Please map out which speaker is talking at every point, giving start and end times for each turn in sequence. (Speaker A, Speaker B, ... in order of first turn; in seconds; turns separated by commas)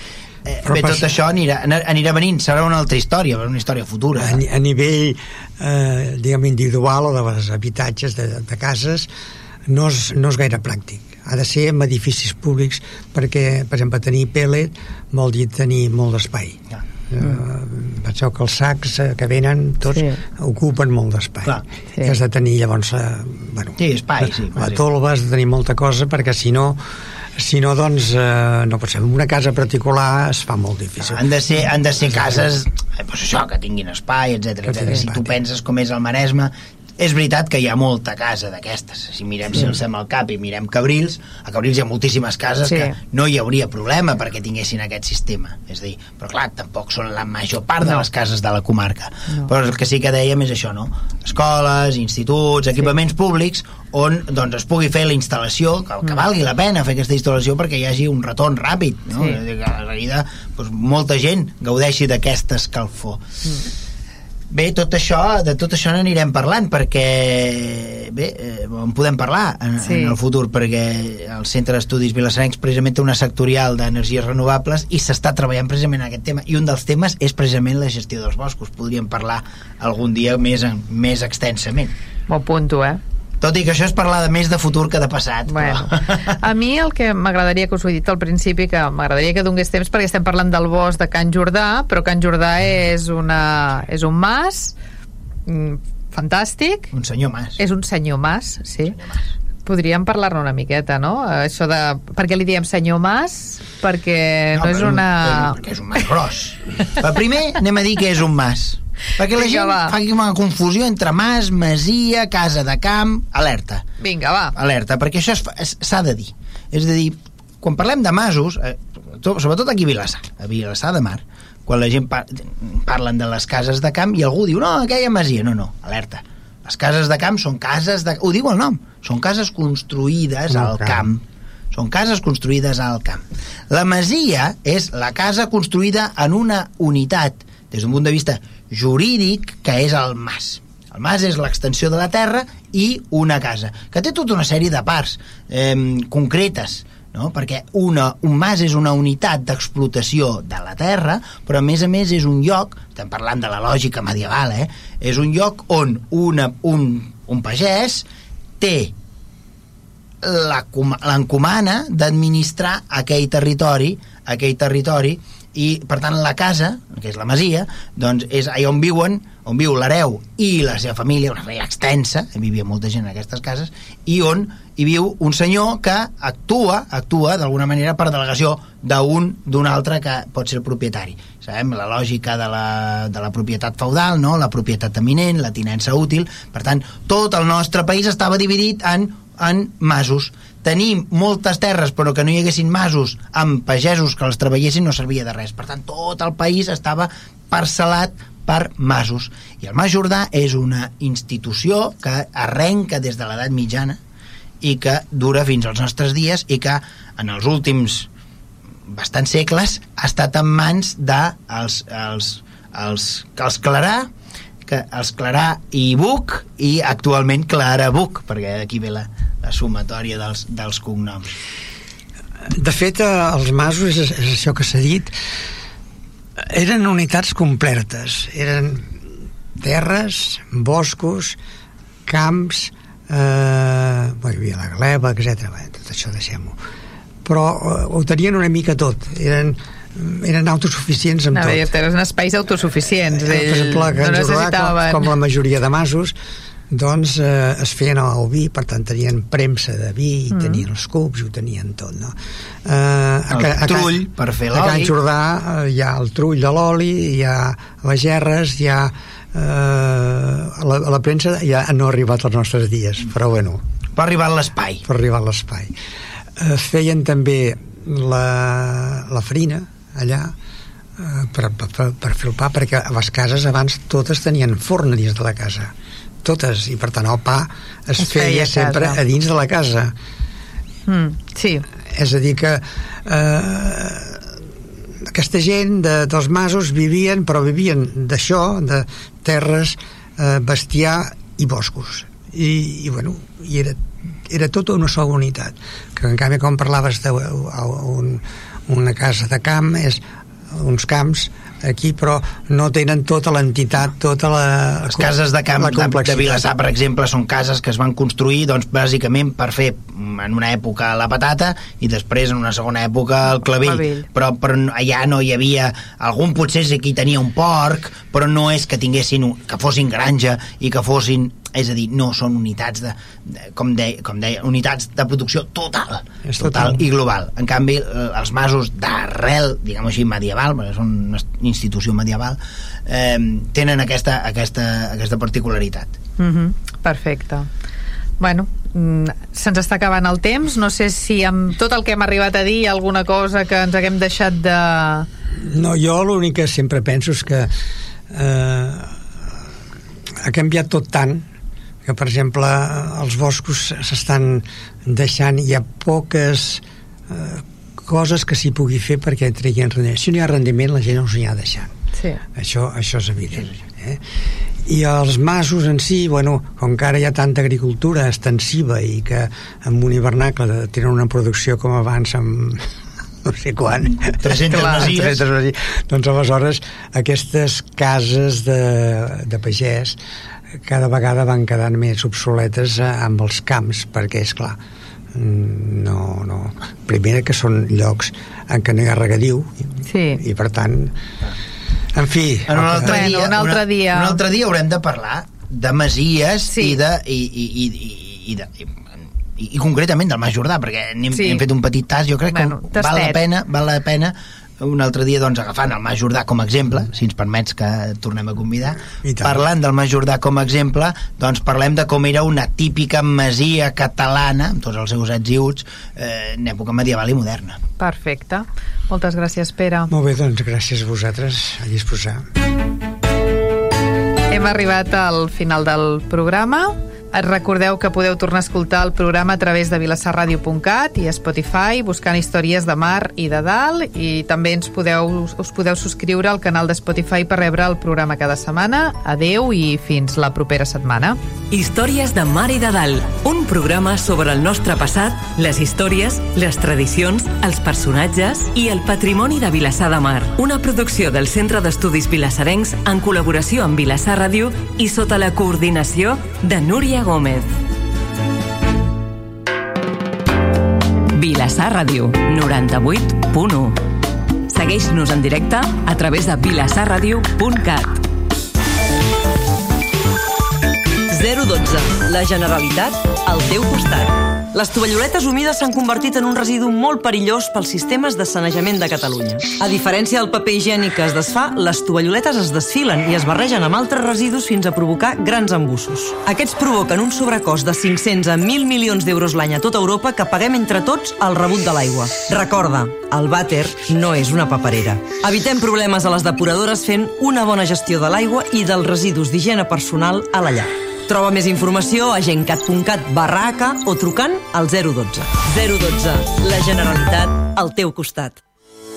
Speaker A: 0.5-4.4, Speaker B: 0.6-1.1, Speaker B: 4.2-9.1, Speaker B: 9.7-26.8, Speaker C: 19.9-20.2, Speaker A: 23.8-24.8, Speaker B: 27.4-31.2, Speaker A: 31.1-63.2, Speaker B: 32.0-32.5, Speaker B: 34.6-35.4, Speaker C: 42.6-43.0, Speaker C: 59.1-59.4, Speaker A: 64.5-81.9, Speaker C: 69.8-70.2, Speaker C: 82.3-83.0, Speaker A: 83.4-86.3, Speaker C: 85.5-94.8, Speaker C: 95.5-96.9, Speaker A: 96.9-97.6, Speaker C: 97.6-99.0, Speaker A: 98.9-99.3, Speaker C: 99.6-105.6, Speaker A: 104.5-113.9, Speaker C: 109.3-110.0, Speaker C: 114.0-114.5, Speaker A: 114.5-158.1, Speaker B: 130.5-131.1, Speaker A: 158.6-158.9, Speaker A: 160.2-204.0, Speaker A: 204.6-208.1, Speaker A: 208.9-214.1, Speaker A: 214.7-221.3, Speaker B: 222.5-225.1, Speaker B: 226.4-229.0, Speaker B: 229.6-231.4, Speaker B: 232.1-236.6, Speaker B: 237.2-241.7, Speaker C: 241.3-245.1, Speaker B: 243.1-246.2, Speaker B: 246.7-263.6, Speaker C: 250.3-250.6, Speaker A: 253.3-254.9, Speaker A: 263.9-264.8, Speaker B: 264.9-265.7, Speaker B: 266.4-270.3, Speaker B: 271.0-275.7, Speaker B: 276.2-279.9, Speaker C: 278.0-279.0, Speaker C: 280.9-281.6, Speaker B: 281.9-284.4, Speaker B: 285.0-306.4, Speaker A: 304.9-335.9, Speaker C: 313.3-314.1, Speaker B: 326.2-326.9, Speaker C: 336.2-337.5, Speaker C: 338.2-345.1, Speaker B: 345.4-347.5, Speaker B: 348.1-348.9, Speaker B: 350.2-351.3, Speaker B: 351.9-361.7, Speaker C: 361.9-362.2, Speaker B: 362.4-364.0, Speaker B: 364.7-372.7, Speaker B: 373.2-380.0, Speaker A: 374.0-375.2, Speaker C: 374.5-374.8, Speaker B: 380.6-384.6, Speaker B: 385.1-390.9, Speaker C: 389.9-390.2, Speaker B: 391.9-393.2, Speaker A: 392.5-398.7, Speaker C: 392.8-394.2, Speaker C: 396.5-396.8, Speaker A: 399.4-417.6, Speaker C: 401.1-401.4, Speaker C: 402.3-403.2, Speaker B: 408.9-409.4, Speaker C: 417.8-419.9, Speaker B: 419.9-422.3, Speaker C: 424.3-441.2, Speaker D: 441.5-457.5, Speaker D: 461.1-463.8, Speaker D: 464.5-468.0, Speaker E: 471.1-508.4